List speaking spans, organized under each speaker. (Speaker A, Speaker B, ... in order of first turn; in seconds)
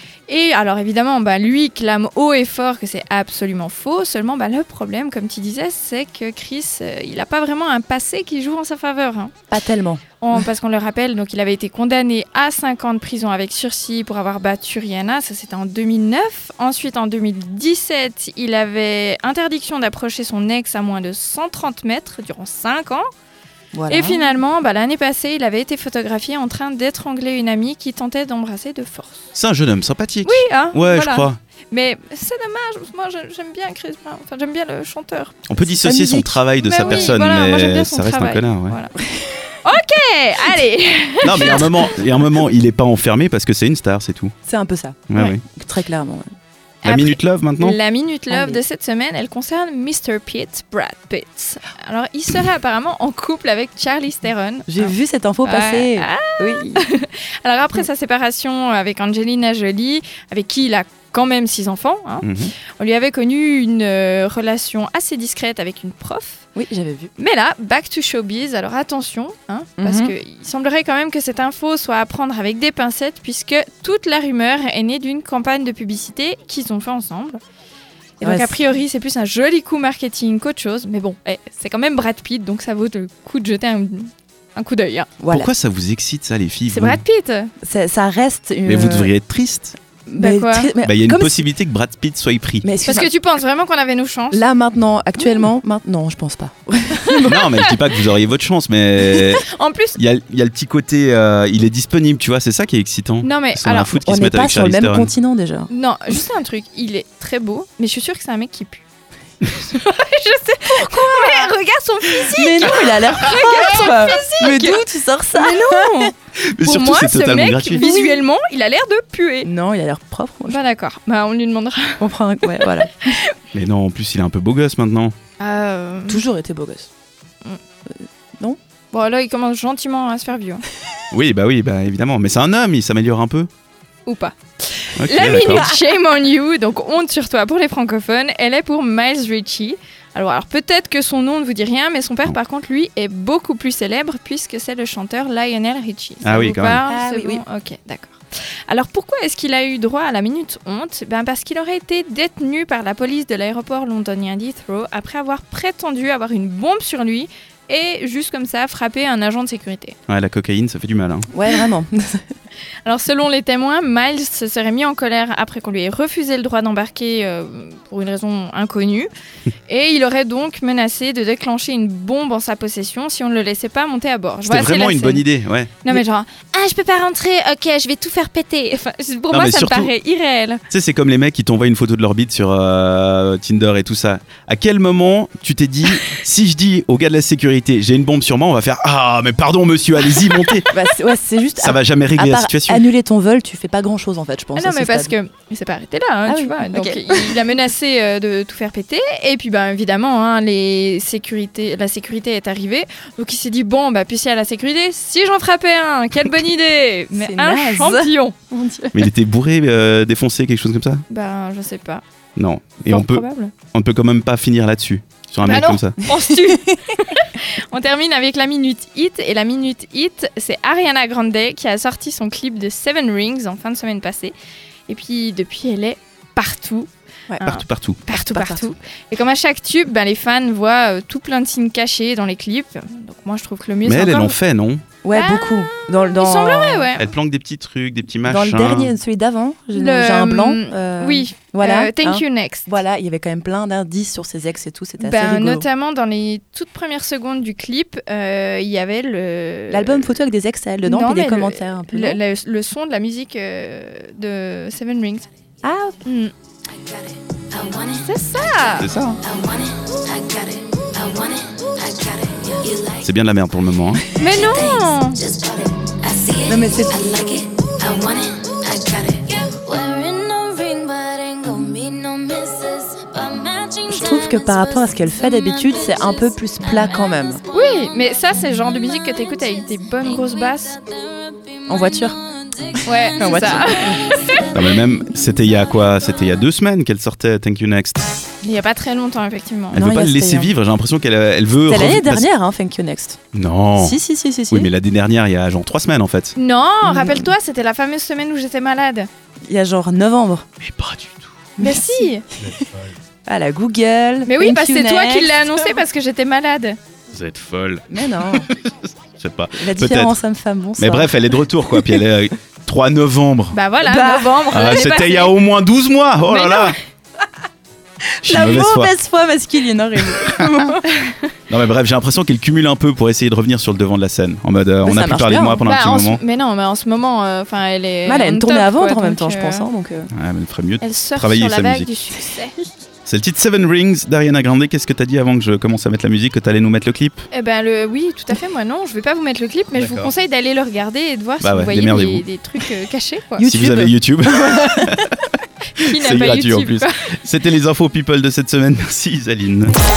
Speaker A: 0.3-9.3, 10.2-23.1, 23.9-29.3, 30.2-35.4, 36.6-38.9, 39.6-42.0, 46.8-66.5, 67.2-77.4, 78.2-85.1, 86.7-87.5, 90.2-90.7, 92.8-94.4, 97.1-97.7, 99.4-100.0, 103.2-104.0, 105.7-108.8, 109.5-119.5, 120.5-123.3, 125.4-126.2, 128.9-130.6, 134.1-160.0, 162.8-169.1, 169.7-175.3, 175.8-180.6, 194.6-208.4, 211.1-212.0, 212.9-213.5, 215.4-224.3, 224.9-226.9, 227.4-234.4, 235.1-235.6, 236.1-237.1, 239.7-242.8, 245.0-250.1, 250.8-255.3, 256.1-256.3, 257.8-258.9, 264.2-265.2, 277.5-280.8, 282.9-284.5, 288.4-289.8, 296.4-299.1, 301.6-302.2, 304.2-306.8, 313.5-315.3, 316.3-316.8, 325.6-329.7, 330.8-332.5, 337.3-343.5, 345.8-346.9
Speaker B: 9.5-10.5, 23.7-24.2, 35.6-37.2, 44.5-46.3, 48.3-48.6, 54.7-56.9, 66.5-67.1, 69.8-70.2, 78.2-78.7, 85.2-85.5, 87.6-89.1, 90.1-91.5, 92.6-93.1, 94.3-97.4, 104.0-106.2, 110.7-111.5, 112.2-116.1, 117.8-118.2, 119.4-120.6, 122.0-123.0, 126.1-126.9, 128.0-128.6, 135.5-135.8, 146.9-147.4, 161.3-162.3, 190.7-195.2, 196.3-197.5, 207.1-209.1, 228.1-228.7, 235.0-236.9, 238.3-245.7, 249.7-252.2, 255.6-256.0, 266.4-267.5, 273.9-277.4, 281.7-282.2, 282.7-284.0, 289.7-290.5, 291.7-293.2, 293.8-294.7, 296.8-297.4, 299.5-300.5, 301.6-302.7, 303.3-305.8, 307.9-308.5, 309.5-311.2, 313.8-314.5, 318.2-320.9, 324.9-325.6, 328.1-330.1, 343.4-344.9
Speaker C: 29.4-31.4, 35.5-38.8, 41.2-44.3, 45.1-45.4, 46.8-47.8, 62.2-62.5, 85.3-87.0, 88.7-89.8, 90.8-92.7, 97.2-105.1, 116.5-117.8, 123.5-125.2, 131.1-133.5, 135.0-135.7, 146.2-146.8, 160.1-161.3, 174.4-176.0, 179.3-179.9, 180.7-190.8, 191.6-192.8, 208.9-211.0, 212.4-216.0, 227.5-228.1, 233.8-234.8, 237.0-238.9, 258.8-259.2, 263.0-264.1, 284.5-288.1, 289.7-292.3, 293.3-294.0, 294.5-296.4, 300.6-301.3, 307.1-310.2, 310.8-313.6, 314.5-316.8, 318.2-318.9, 320.1-320.7, 321.5-326.2, 330.1-331.9, 333.1-337.2, 339.7-340.1, 341.4-342.2, 343.4-345.2, 345.8-349.7
Speaker D: 269.7-273.8